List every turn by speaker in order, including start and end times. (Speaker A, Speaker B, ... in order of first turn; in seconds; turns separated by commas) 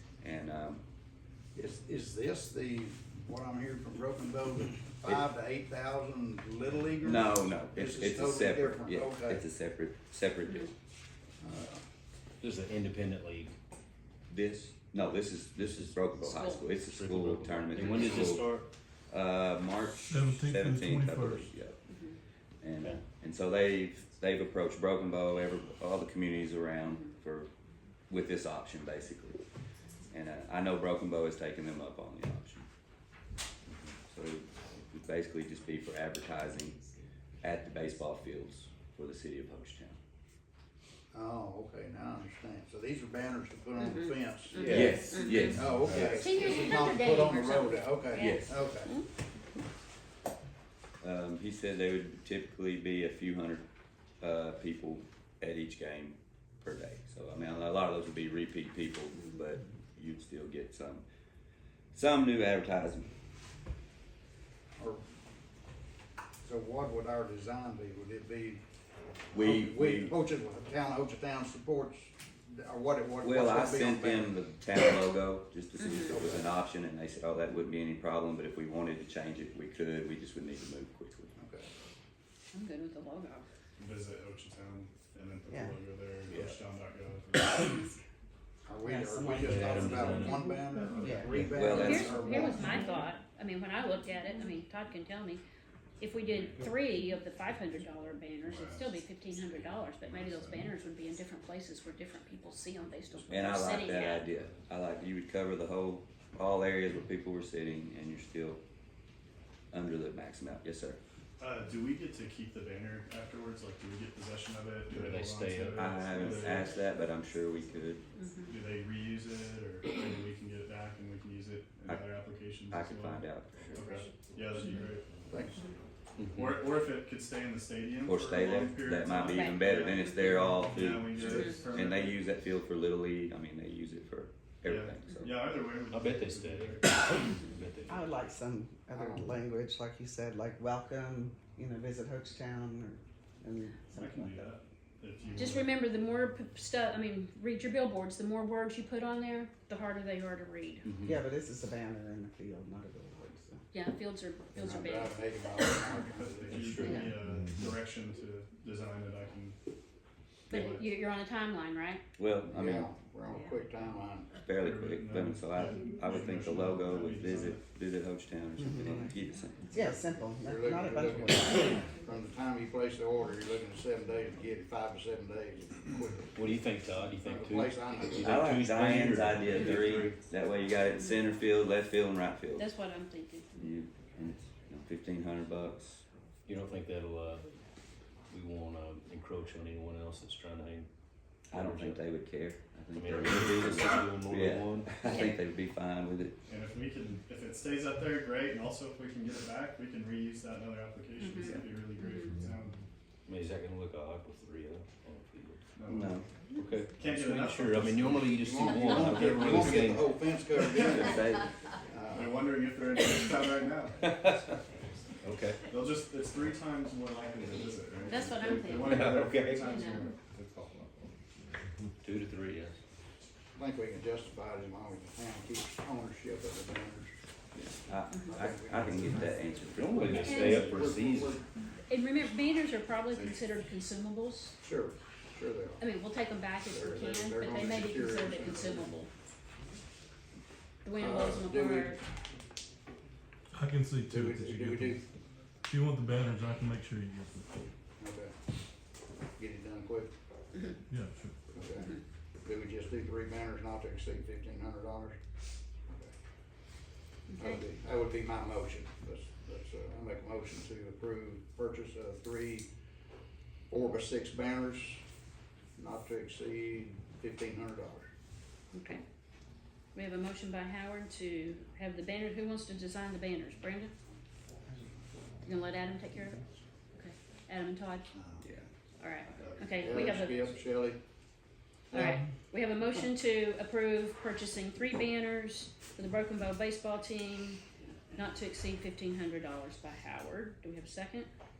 Speaker A: 0.2-0.8, Speaker B: 1.5-9.4, Speaker A: 7.0-10.7, Speaker B: 11.4-11.8, Speaker C: 12.4-13.6, Speaker A: 14.3-18.4, Speaker D: 16.2-16.7, Speaker C: 16.8-18.7, Speaker D: 17.8-18.2, Speaker A: 19.1-21.8, Speaker E: 20.1-21.5, Speaker D: 21.9-22.2, Speaker A: 22.6-27.5, Speaker D: 26.9-27.1, Speaker A: 28.1-29.4, Speaker A: 30.1-32.7, Speaker A: 34.1-36.8, Speaker A: 37.4-40.0, Speaker B: 41.1-48.9, Speaker D: 43.8-49.0, Speaker C: 44.5-45.3, Speaker A: 44.6-46.2, Speaker C: 45.8-46.3, Speaker A: 51.0-53.6, Speaker A: 54.2-61.0, Speaker A: 61.9-63.1, Speaker B: 64.8-65.0, Speaker B: 66.4-68.6, Speaker A: 69.3-70.1, Speaker B: 69.3-74.4, Speaker A: 73.2-81.3, Speaker D: 75.8-76.1, Speaker B: 76.1-76.5, Speaker B: 81.4-81.7, Speaker D: 82.5-83.5, Speaker F: 83.8-87.9, Speaker G: 85.5-85.8, Speaker B: 88.7-93.0, Speaker G: 88.8-91.5, Speaker C: 89.3-90.5, Speaker F: 90.6-91.4, Speaker C: 91.3-91.8, Speaker A: 91.5-92.3, Speaker D: 91.7-95.4, Speaker D: 96.0-104.2, Speaker F: 96.2-96.6, Speaker F: 98.5-98.9, Speaker F: 100.0-100.6, Speaker A: 103.3-108.6, Speaker A: 109.7-111.0, Speaker F: 111.4-116.6, Speaker C: 114.9-116.3, Speaker A: 115.7-118.1, Speaker D: 118.2-118.6, Speaker F: 118.5-125.7, Speaker A: 121.9-122.2, Speaker A: 122.7-123.7, Speaker B: 125.3-125.6, Speaker C: 126.2-126.6, Speaker F: 126.3-132.2, Speaker A: 128.0-135.4, Speaker D: 129.3-130.2, Speaker D: 131.2-131.6, Speaker F: 134.6-137.9, Speaker C: 135.9-138.1, Speaker G: 137.9-144.5, Speaker F: 143.9-145.8, Speaker D: 145.3-150.9, Speaker C: 150.8-151.2, Speaker G: 151.0-153.6, Speaker D: 153.7-155.9, Speaker B: 154.5-157.2, Speaker F: 156.1-159.6, Speaker C: 156.5-157.0, Speaker D: 156.8-157.2, Speaker D: 160.5-162.0, Speaker F: 160.5-160.9, Speaker A: 162.2-162.9, Speaker B: 162.5-164.3, Speaker A: 164.4-169.8, Speaker F: 164.6-167.6, Speaker G: 168.6-169.2, Speaker G: 169.7-171.9, Speaker B: 170.4-176.6, Speaker C: 176.3-180.2, Speaker B: 177.2-178.5, Speaker A: 178.2-182.7, Speaker D: 179.6-179.8, Speaker D: 181.0-181.2, Speaker D: 182.6-183.7, Speaker A: 183.6-186.0, Speaker C: 186.5-187.5, Speaker C: 188.3-190.9, Speaker C: 191.5-192.1, Speaker A: 191.5-196.3, Speaker C: 192.9-195.2, Speaker D: 195.0-195.3, Speaker F: 196.5-202.8, Speaker D: 201.2-202.4, Speaker C: 203.2-205.7, Speaker F: 205.7-208.5, Speaker A: 205.9-206.2, Speaker C: 206.5-210.2, Speaker B: 208.4-212.5, Speaker D: 208.7-209.0, Speaker A: 209.1-209.8, Speaker F: 209.2-209.7, Speaker F: 210.6-211.2, Speaker A: 210.7-211.5, Speaker F: 212.1-214.1, Speaker C: 214.0-214.6, Speaker C: 215.2-215.7, Speaker F: 215.6-221.1, Speaker D: 218.0-219.1, Speaker C: 218.8-219.8, Speaker C: 222.0-222.8, Speaker B: 223.5-227.1, Speaker A: 227.5-230.6, Speaker B: 228.3-229.3, Speaker C: 229.7-231.4, Speaker D: 230.1-230.8, Speaker B: 230.2-231.4, Speaker F: 230.6-230.8, Speaker D: 231.8-234.6, Speaker F: 233.1-233.4, Speaker B: 234.6-235.8, Speaker D: 235.8-239.1, Speaker B: 236.6-239.0, Speaker D: 240.8-242.0, Speaker B: 241.0-242.0, Speaker E: 243.5-245.0, Speaker B: 244.1-245.0, Speaker E: 245.7-247.5, Speaker B: 248.0-248.3, Speaker B: 249.3-250.1, Speaker E: 250.9-251.3, Speaker B: 251.5-255.2, Speaker D: 251.8-252.0, Speaker B: 255.9-256.1, Speaker D: 257.3-257.6, Speaker B: 257.4-262.7, Speaker B: 263.7-265.0, Speaker B: 265.8-268.1, Speaker D: 268.7-269.0, Speaker D: 269.9-273.9, Speaker D: 275.4-276.4, Speaker D: 276.9-278.1, Speaker B: 278.1-278.5, Speaker D: 279.0-280.5, Speaker A: 279.3-279.5, Speaker B: 279.6-281.0, Speaker D: 281.9-287.6, Speaker D: 288.1-291.3